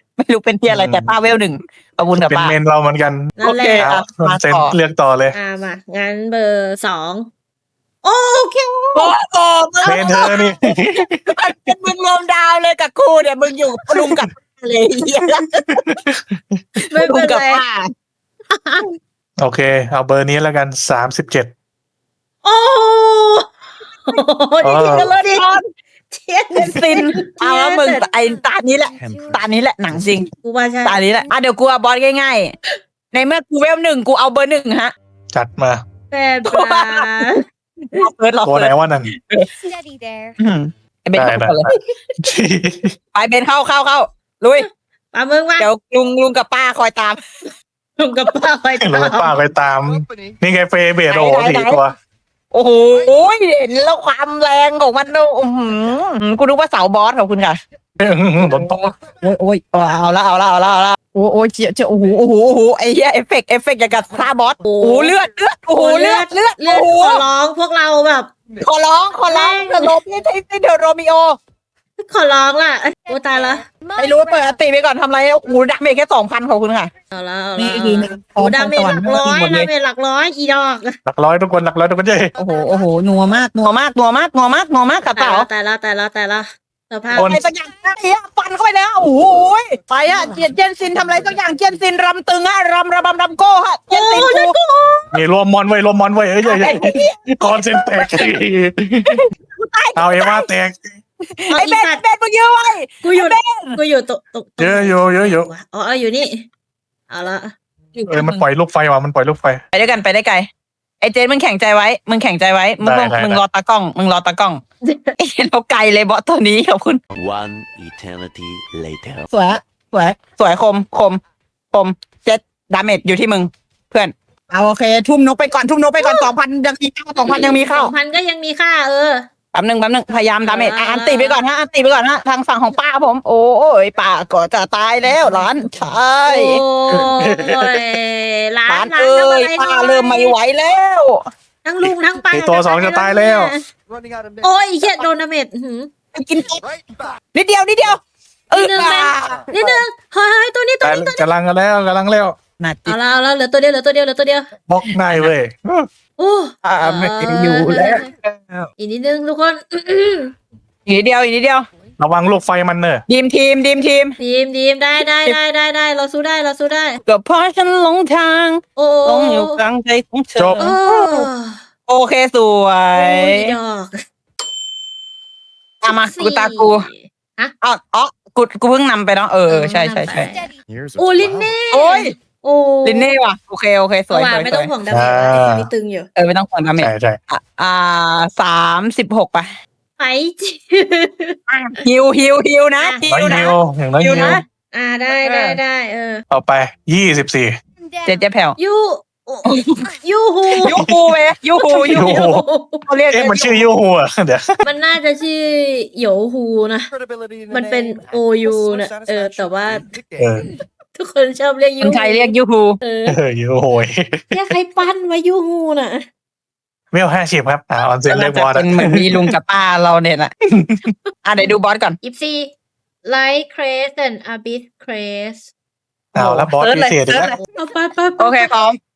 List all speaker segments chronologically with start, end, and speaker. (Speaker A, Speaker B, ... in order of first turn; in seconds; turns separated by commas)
Speaker A: 0.2-2.5, Speaker B: 0.7-1.1, Speaker B: 2.2-5.4, Speaker C: 3.4-3.9, Speaker A: 3.4-4.8, Speaker C: 5.3-7.3, Speaker C: 8.0-9.1, Speaker A: 8.9-15.8, Speaker B: 9.8-11.3, Speaker B: 15.8-16.6, Speaker C: 16.8-17.6, Speaker A: 16.8-17.9, Speaker C: 18.5-18.9, Speaker B: 19.4-21.5, Speaker C: 22.4-25.5, Speaker B: 24.6-25.1, Speaker A: 24.8-25.7, Speaker C: 26.1-28.1, Speaker A: 26.6-30.3, Speaker D: 29.0-30.2, Speaker E: 29.0-29.4, Speaker C: 30.4-31.0, Speaker A: 30.9-32.5, Speaker A: 33.1-34.9, Speaker B: 35.3-35.8, Speaker C: 36.1-37.4, Speaker A: 36.5-39.5, Speaker B: 38.4-39.1, Speaker E: 39.7-40.4, Speaker A: 40.4-41.7, Speaker B: 41.2-43.0, Speaker A: 43.1-44.7, Speaker C: 44.6-45.7, Speaker A: 45.6-47.2, Speaker C: 48.0-49.3, Speaker B: 48.8-52.0, Speaker A: 51.1-51.8, Speaker A: 52.5-57.6, Speaker B: 58.0-58.7, Speaker A: 58.4-67.2, Speaker C: 64.6-65.2, Speaker C: 65.8-68.3, Speaker A: 68.6-71.4, Speaker C: 69.3-70.0, Speaker C: 72.0-73.7, Speaker E: 73.7-74.4, Speaker A: 74.0-76.9, Speaker C: 77.1-81.0, Speaker A: 77.6-79.7, Speaker B: 81.1-82.4, Speaker A: 82.4-85.5, Speaker C: 85.2-87.4, Speaker A: 87.1-94.6, Speaker B: 87.2-87.4, Speaker E: 90.1-91.4, Speaker C: 93.9-95.2, Speaker B: 95.1-99.2, Speaker A: 96.4-98.4, Speaker A: 99.1-100.5, Speaker B: 100.0-100.9, Speaker A: 101.3-103.8, Speaker C: 101.5-102.0, Speaker C: 103.0-106.5, Speaker B: 104.6-105.5, Speaker C: 107.1-107.5, Speaker A: 108.0-108.4, Speaker B: 108.1-109.6, Speaker A: 109.7-110.5, Speaker A: 111.0-114.6, Speaker B: 112.8-113.4, Speaker C: 114.8-115.2, Speaker A: 115.2-117.0, Speaker D: 117.1-119.3, Speaker A: 119.3-121.2, Speaker A: 121.7-127.9, Speaker C: 126.0-126.3, Speaker C: 127.2-129.3, Speaker A: 129.5-136.6, Speaker C: 130.4-131.4, Speaker C: 136.3-140.3, Speaker B: 136.9-137.9, Speaker A: 138.7-141.2, Speaker C: 141.6-143.6, Speaker B: 142.3-143.5, Speaker C: 144.4-145.9, Speaker A: 146.1-146.6, Speaker A: 147.3-149.7, Speaker C: 148.5-151.2, Speaker B: 150.8-152.4, Speaker A: 152.6-153.0, Speaker C: 152.9-154.5, Speaker B: 154.7-155.9, Speaker C: 156.2-158.1, Speaker A: 156.6-158.7, Speaker C: 158.8-160.3, Speaker A: 160.9-161.7, Speaker B: 162.0-163.0, Speaker A: 163.1-164.2, Speaker C: 164.2-167.0, Speaker A: 167.1-171.3, Speaker C: 168.8-169.6, Speaker B: 170.4-170.7, Speaker C: 170.6-171.6, Speaker A: 171.9-173.6, Speaker C: 172.9-174.0, Speaker A: 175.8-176.9, Speaker C: 175.8-177.5, Speaker A: 177.6-180.3, Speaker C: 179.5-183.2, Speaker D: 180.7-181.5, Speaker A: 181.7-182.2, Speaker A: 182.8-184.7, Speaker C: 184.1-186.1, Speaker B: 184.9-185.7, Speaker A: 186.2-189.5, Speaker B: 186.8-187.2, Speaker C: 190.0-191.4, Speaker A: 191.5-194.4, Speaker C: 192.8-193.5, Speaker B: 193.1-194.4, Speaker C: 194.1-196.2, Speaker A: 195.2-195.6, Speaker B: 196.3-197.6, Speaker A: 198.0-198.6, Speaker C: 198.6-200.8, Speaker A: 199.4-199.8, Speaker A: 200.6-202.3, Speaker B: 200.7-200.9, Speaker C: 201.6-202.8, Speaker B: 201.8-202.4, Speaker A: 202.9-203.7, Speaker B: 203.1-204.6, Speaker C: 204.6-206.9, Speaker C: 207.5-209.9, Speaker B: 210.2-210.5, Speaker C: 210.4-213.2, Speaker A: 211.8-212.8, Speaker B: 213.1-214.3, Speaker C: 214.3-216.1, Speaker B: 216.9-219.3, Speaker A: 218.1-222.0, Speaker C: 222.0-222.5, Speaker C: 223.1-225.5, Speaker A: 226.2-227.4, Speaker B: 226.2-227.4, Speaker C: 227.4-228.5, Speaker A: 228.2-228.8